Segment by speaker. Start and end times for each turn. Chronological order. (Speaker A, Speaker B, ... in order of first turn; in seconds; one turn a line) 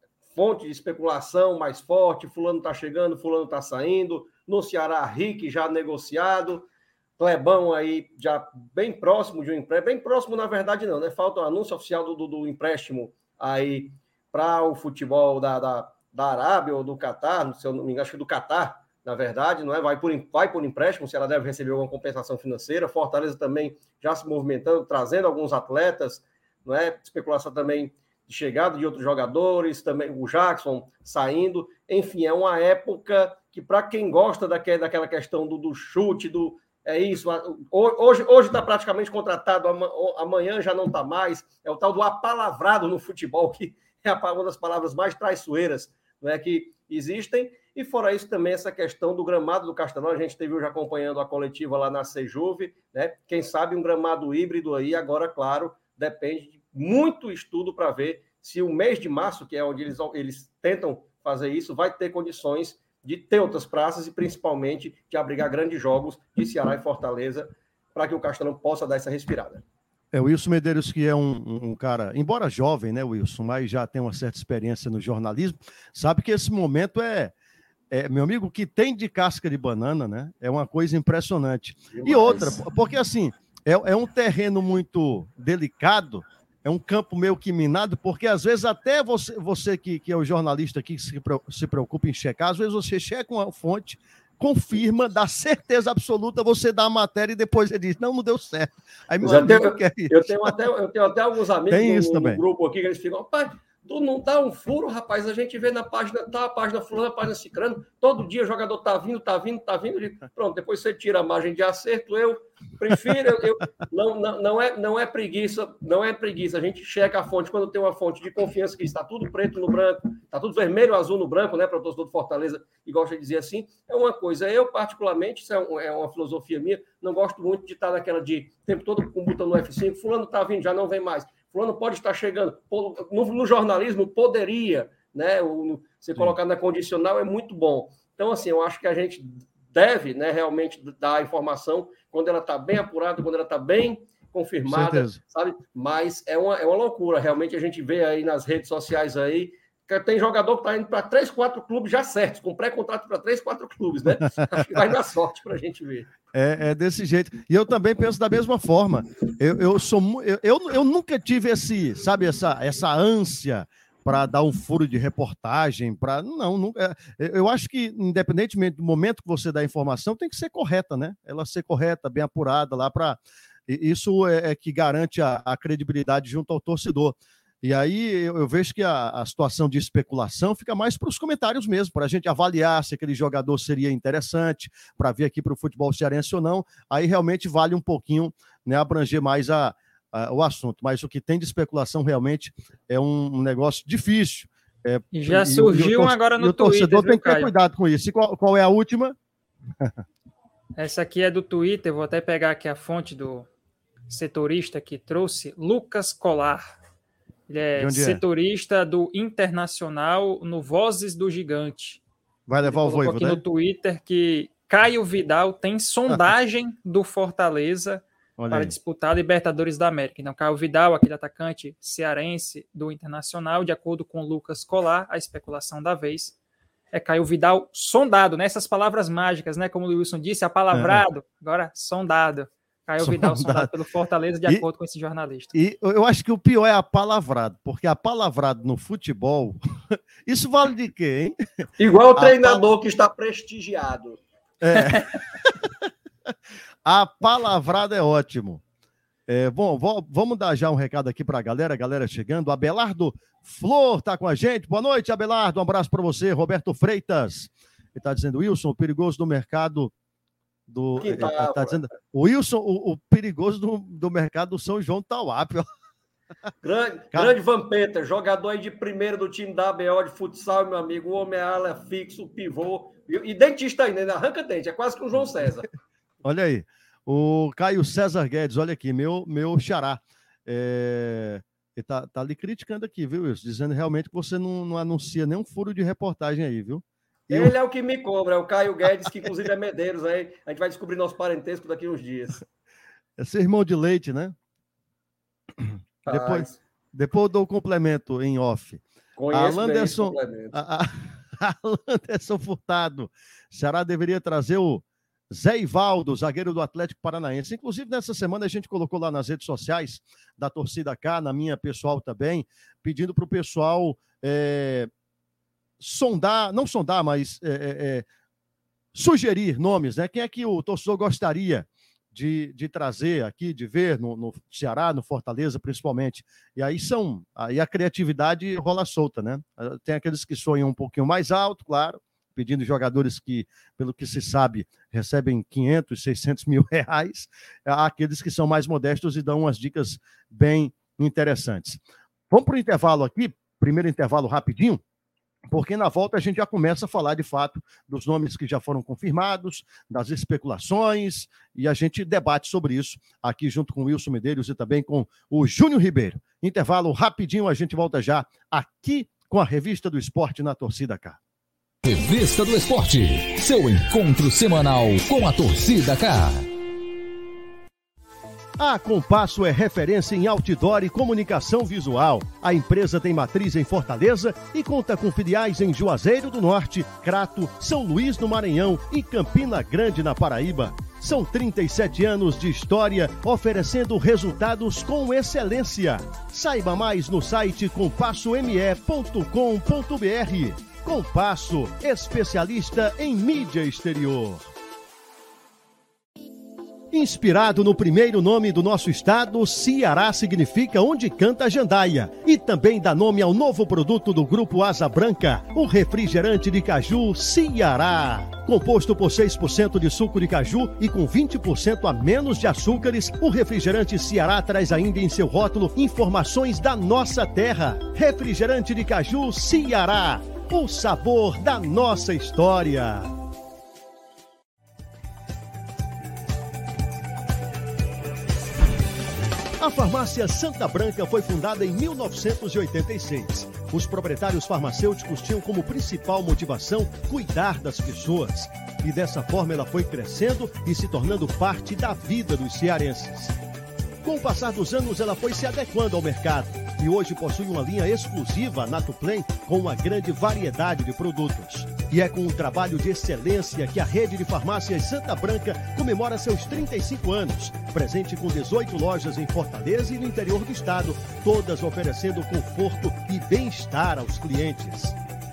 Speaker A: 0.3-69.6
Speaker B: 70.1-77.3
Speaker B: 77.9-100.5
Speaker A: 81.9-82.5
Speaker A: 99.2-156.1
Speaker B: 101.7-102.4
Speaker B: 144.7-145.2
Speaker B: 156.3-199.2
Speaker C: 195.1-197.5
Speaker C: 200.8-203.5
Speaker C: 204.1-206.7
Speaker C: 207.5-212.0
Speaker B: 207.8-208.2
Speaker B: 212.5-213.4
Speaker C: 212.6-226.3
Speaker B: 218.4-218.7
Speaker C: 226.9-235.5
Speaker B: 230.7-231.0
Speaker B: 233.0-233.7
Speaker B: 235.5-241.4
Speaker A: 241.8-244.2
Speaker B: 242.2-242.6
Speaker B: 244.6-245.2
Speaker C: 244.8-245.0
Speaker B: 246.8-248.6
Speaker B: 249.3-259.9
Speaker B: 260.7-265.7
Speaker A: 261.0-261.8
Speaker A: 266.6-275.7
Speaker B: 276.2-287.5
Speaker A: 287.3-292.4
Speaker B: 293.2-294.4
Speaker B: 295.6-314.9
Speaker A: 296.1-296.6
Speaker A: 299.2-300.6
Speaker B: 315.8-318.1
Speaker B: 318.9-344.8
Speaker B: 345.5-361.2
Speaker D: 361.8-366.5
Speaker B: 368.6-394.5
Speaker B: 396.9-423.1
Speaker B: 429.6-443.4
Speaker B: 444.0-464.9